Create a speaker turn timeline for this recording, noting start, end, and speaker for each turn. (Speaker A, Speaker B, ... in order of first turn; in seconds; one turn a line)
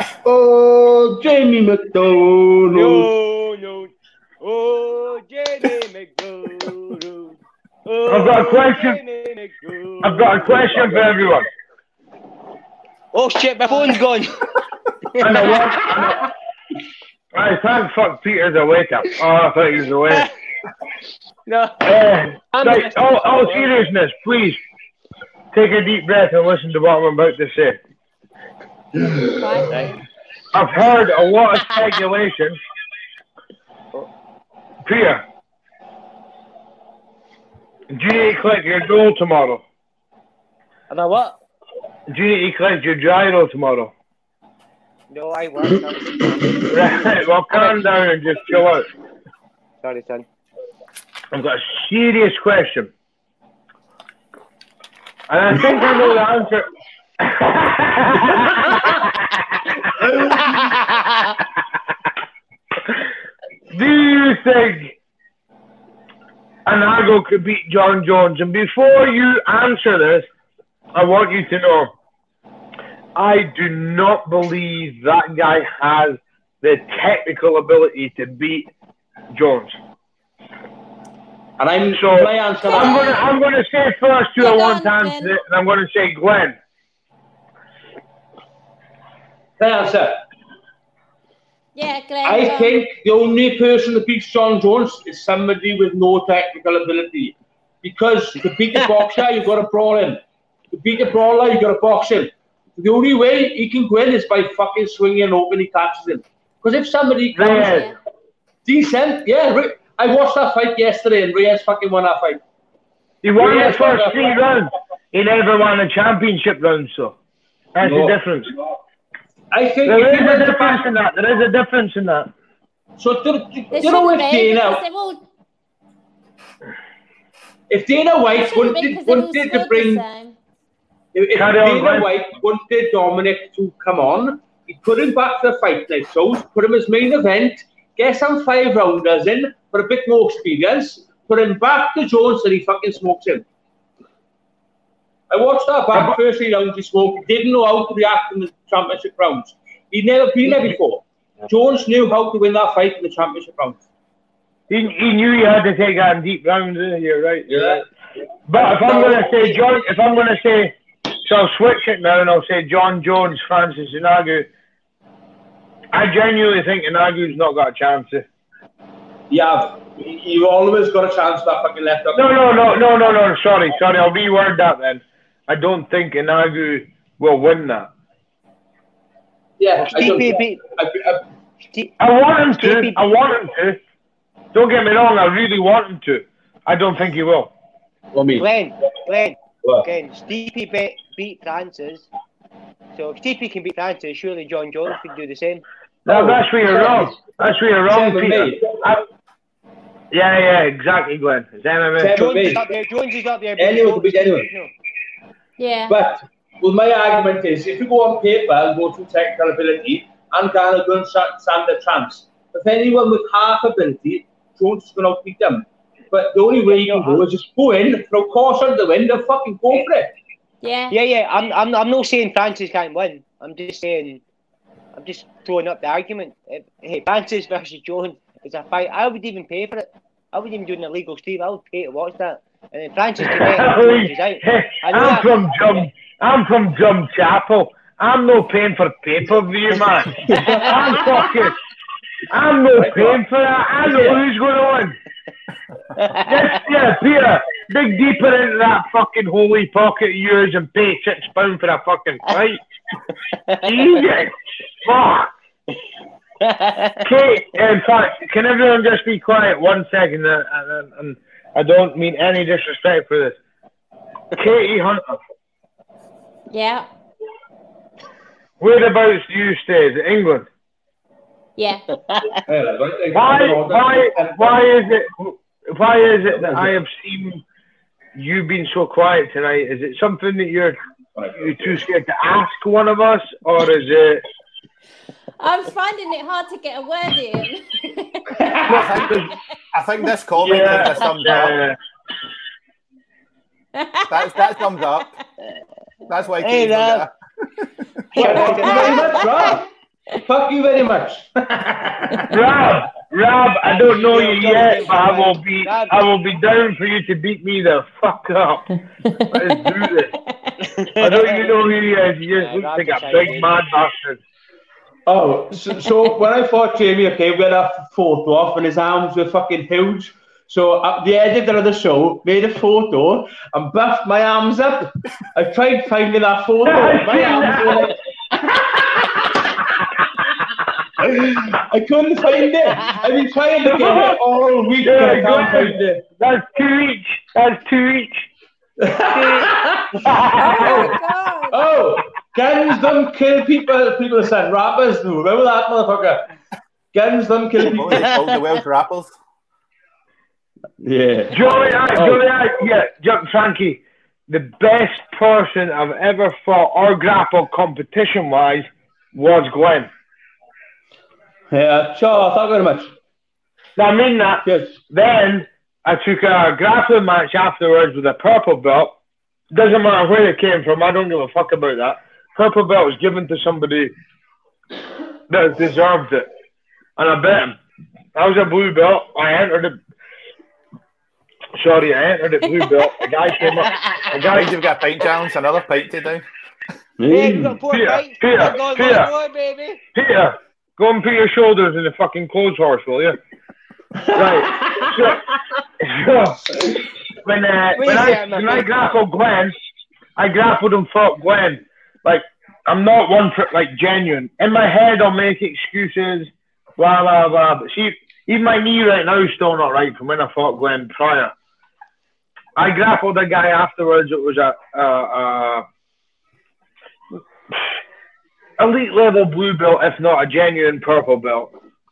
Speaker A: 0.2-3.1
Speaker B: 2.7-11.1
Speaker C: 8.1-9.0
Speaker C: 10.0-11.5
Speaker B: 13.1-14.4
Speaker B: 15.1-16.2
Speaker C: 15.2-16.3
Speaker C: 17.3-20.3
Speaker B: 21.5-21.9
Speaker C: 21.8-24.6
Speaker B: 22.5-23.7
Speaker C: 25.5-27.8
Speaker A: 29.0-29.3
Speaker D: 29.4-29.9
Speaker C: 30.5-32.6
Speaker C: 34.8-35.2
Speaker C: 37.9-39.6
Speaker B: 40.9-41.4
Speaker C: 42.1-43.9
Speaker B: 45.1-47.8
Speaker C: 46.7-48.9
Speaker B: 49.8-50.2
Speaker C: 51.3-52.9
Speaker C: 55.3-56.7
Speaker C: 57.2-59.1
Speaker B: 60.4-61.0
Speaker C: 63.7-65.0
Speaker C: 66.7-70.3
Speaker C: 70.9-71.9
Speaker C: 73.2-78.7
Speaker C: 79.3-79.7
Speaker A: 81.6-83.2
Speaker C: 81.9-86.6
Speaker D: 82.6-83.3
Speaker D: 84.4-85.3
Speaker A: 89.6-90.2
Speaker D: 91.7-92.8
Speaker A: 92.2-107.8
Speaker C: 107.3-107.9
Speaker D: 107.5-108.0
Speaker A: 108.6-112.4
Speaker C: 113.2-117.2
Speaker A: 113.4-114.3
Speaker C: 117.7-118.5
Speaker A: 117.8-118.2
Speaker A: 119.5-120.9
Speaker C: 119.8-122.3
Speaker A: 123.0-124.8
Speaker D: 123.7-125.2
Speaker A: 127.7-130.0
Speaker D: 128.3-130.3
Speaker A: 131.1-143.4
Speaker C: 131.3-132.1
Speaker A: 145.3-153.8
Speaker C: 145.9-146.2
Speaker C: 154.7-157.8
Speaker A: 157.5-157.8
Speaker C: 158.5-160.7
Speaker A: 158.6-159.3
Speaker C: 161.2-164.5
Speaker C: 165.9-168.2
Speaker A: 169.3-172.2
Speaker C: 172.1-177.9
Speaker A: 179.6-181.2
Speaker B: 179.8-180.6
Speaker C: 182.0-183.8
Speaker B: 182.6-183.0
Speaker C: 184.5-187.5
Speaker A: 188.1-188.5
Speaker B: 188.3-192.1
Speaker A: 189.6-189.9
Speaker B: 192.9-195.6
Speaker A: 196.1-197.2
Speaker C: 196.1-199.0
Speaker A: 197.9-198.7
Speaker C: 200.1-202.1
Speaker A: 202.0-202.6
Speaker B: 202.1-204.7
Speaker A: 203.6-204.5
Speaker D: 205.6-206.0
Speaker A: 205.9-220.1
Speaker B: 216.7-217.2
Speaker D: 220.6-221.0
Speaker B: 220.9-224.2
Speaker B: 224.9-235.5
Speaker C: 233.2-241.6
Speaker A: 240.2-241.3
Speaker C: 242.3-245.0
Speaker A: 242.7-243.2
Speaker B: 246.0-246.3
Speaker C: 246.1-252.6
Speaker C: 253.6-255.3
Speaker B: 256.4-256.9
Speaker C: 257.0-263.4
Speaker C: 264.3-265.2
Speaker D: 266.5-266.9
Speaker C: 268.6-270.5
Speaker D: 271.6-271.8
Speaker A: 272.4-274.6
Speaker C: 273.1-277.4
Speaker A: 276.3-276.7
Speaker C: 278.1-280.8
Speaker A: 281.1-281.7
Speaker C: 281.4-284.2
Speaker D: 285.4-288.5
Speaker A: 288.4-288.9
Speaker E: 288.7-291.6
Speaker C: 290.4-291.8
Speaker D: 293.7-294.9
Speaker E: 294.1-295.1
Speaker E: 296.1-297.1
Speaker B: 296.4-297.1
Speaker B: 298.1-299.4
Speaker A: 298.1-299.6
Speaker D: 298.6-299.5
Speaker A: 300.1-302.3
Speaker C: 302.3-308.7
Speaker B: 303.7-305.9
Speaker D: 309.1-309.6
Speaker C: 309.2-310.1
Speaker D: 310.3-310.5
Speaker B: 310.6-311.5
Speaker C: 311.0-314.2
Speaker B: 312.4-313.5
Speaker A: 315.1-328.0
Speaker C: 326.6-328.0
Speaker A: 331.0-336.0
Speaker C: 333.6-334.2
Speaker C: 334.8-338.3
Speaker A: 338.8-340.1
Speaker B: 339.1-339.5
Speaker C: 340.0-340.9
Speaker D: 340.3-341.6
Speaker A: 340.6-341.0
Speaker A: 341.5-346.2
Speaker A: 346.9-348.1
Speaker E: 347.7-349.2
Speaker A: 350.8-351.4
Speaker C: 351.3-359.9
Speaker A: 351.9-352.2
Speaker A: 361.5-362.9
Speaker C: 363.8-368.9
Speaker A: 364.4-364.8
Speaker C: 369.5-373.9
Speaker C: 375.3-376.3
Speaker C: 377.0-377.6
Speaker C: 378.1-379.8
Speaker C: 381.6-384.5
Speaker E: 384.3-386.2
Speaker A: 387.0-387.6
Speaker B: 387.1-389.8
Speaker C: 387.7-389.1
Speaker C: 389.9-393.2
Speaker A: 394.0-395.1
Speaker C: 394.1-395.3
Speaker C: 395.8-399.5
Speaker B: 397.8-399.0
Speaker C: 400.1-411.3
Speaker C: 412.6-415.6
Speaker C: 418.6-421.5